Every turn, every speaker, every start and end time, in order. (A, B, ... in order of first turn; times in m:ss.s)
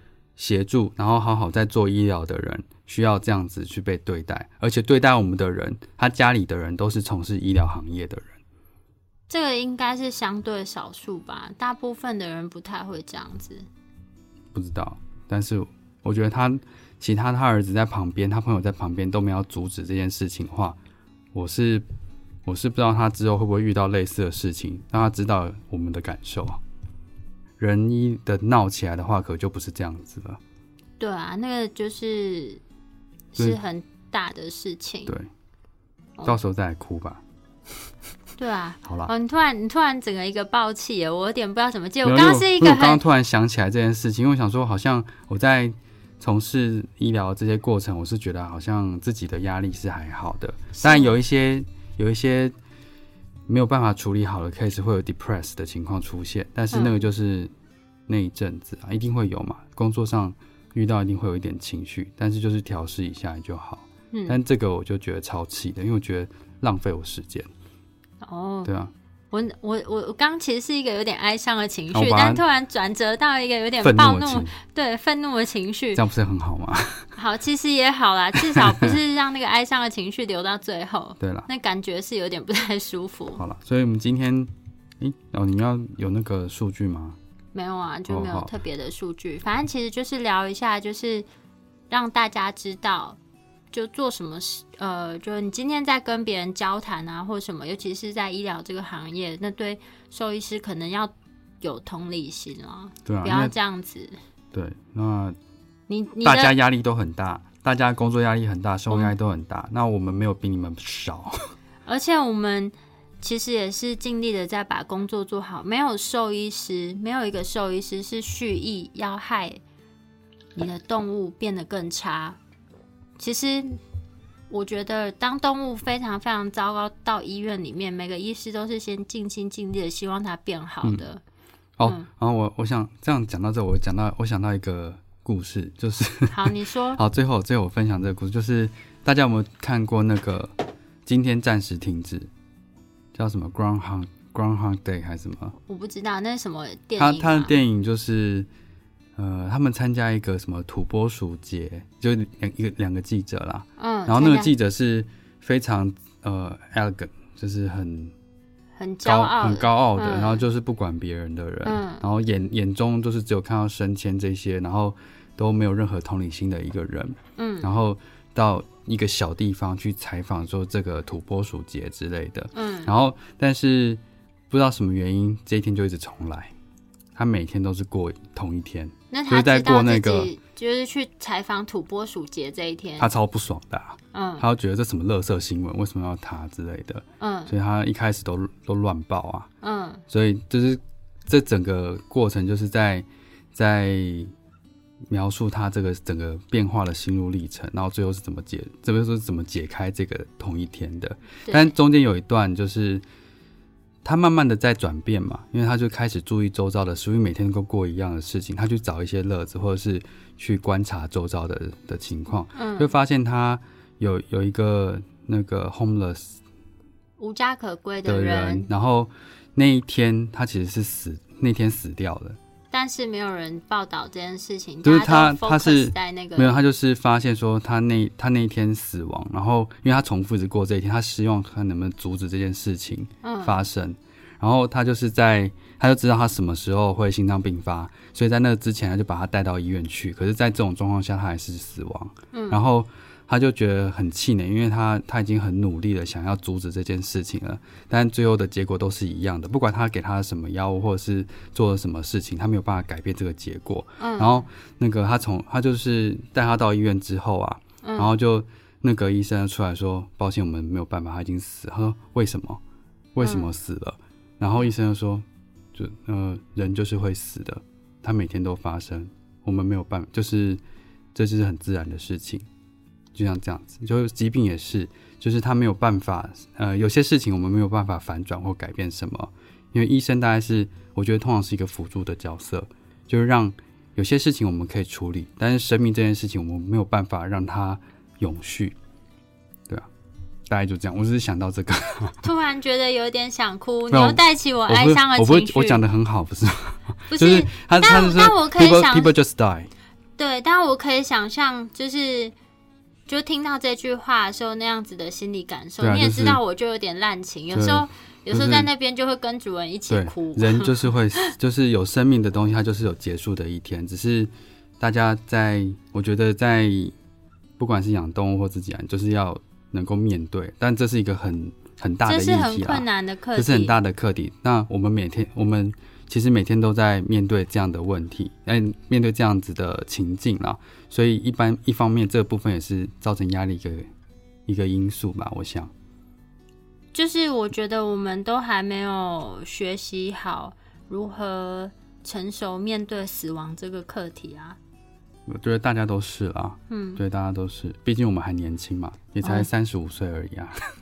0:00.4-0:08.4 A
0:09.3-0:13.7 B
0:14.5-0:20.8 A
0:21.3-0:21.8 A
0:22.4-0:26.6 A
0:27.6-0:30.4 A
0:31.0-0:32.6 B
0:33.3-0:35.1 B
0:36.2-0:37.2 A
0:38.4-0:43.0 B
0:38.8-0:39.1 A
0:42.0-0:52.5 A
0:50.7-0:51.1 B
0:53.5-0:57.5 A
0:56.7-0:57.0 B
0:58.1-1:07.5 A
1:04.1-1:04.4 B
1:08.2-1:08.7 B
1:08.6-1:08.9 A
1:09.3-1:16.0 B
1:11.9-1:12.4 A
1:13.8-1:14.5 A
1:16.0-1:17.1 A
1:17.2-1:23.4 B
1:18.6-1:18.9 A
1:21.2-1:21.5 A
1:23.4-1:27.2 A
1:27.5-1:31.3 B
1:28.1-1:28.5 A
1:31.9-1:33.2 B
1:33.7-1:44.2 B
1:43.1-1:43.5 A
1:44.5-1:45.4 A
1:45.9-1:46.6 B
1:46.2-1:51.4 A
1:51.9-1:59.6 B
2:00.6-2:02.4 B
2:03.2-2:03.8 B
2:04.5-2:11.2 B
2:11.8-2:20.6 A
2:16.3-2:17.0 B
2:21.1-2:22.3 A
2:23.1-2:25.6 A
2:25.7-2:27.6 B
2:27.0-2:28.5 A
2:29.2-2:38.1 A
2:33.8-2:34.5 B
2:38.8-2:40.4 B
2:39.0-2:56.5 A
2:41.6-2:42.0 B
2:47.4-2:47.7 B
2:52.5-2:52.9 B
2:57.2-3:00.3 A
2:59.1-3:03.1 B
3:03.0-3:09.5 A
3:04.1-3:04.4 B
3:07.2-3:07.5 B
3:09.6-3:10.0 B
3:10.1-3:14.3 A
3:15.1-3:23.0 A
3:21.5-3:21.7 B
3:24.0-3:36.4 A
3:32.6-3:32.9 B
3:37.2-3:38.7 B
3:38.0-3:42.4 A
3:42.7-3:46.6 B
3:44.8-4:22.6 A
3:53.2-3:53.6 B
4:02.3-4:02.6 B
4:14.0-4:14.5 B
4:17.8-4:18.1 B
4:23.2-4:30.6 A
4:23.2-4:23.5 B
4:31.2-4:32.5 A
4:33.2-4:48.8 A
4:50.5-4:52.2 A
4:52.2-4:55.8 B
4:53.9-4:59.7 A
4:57.1-4:59.1 B
5:00.2-5:02.3 B
5:03.1-5:11.3 B
5:05.8-5:06.4 A
5:07.5-5:08.7 A
5:09.9-5:16.9 A
5:17.6-5:33.9 A
5:22.1-5:23.8 B
5:34.5-5:35.7 A
5:36.9-5:44.6 B
5:45.3-5:50.6 A
5:46.7-5:47.0 B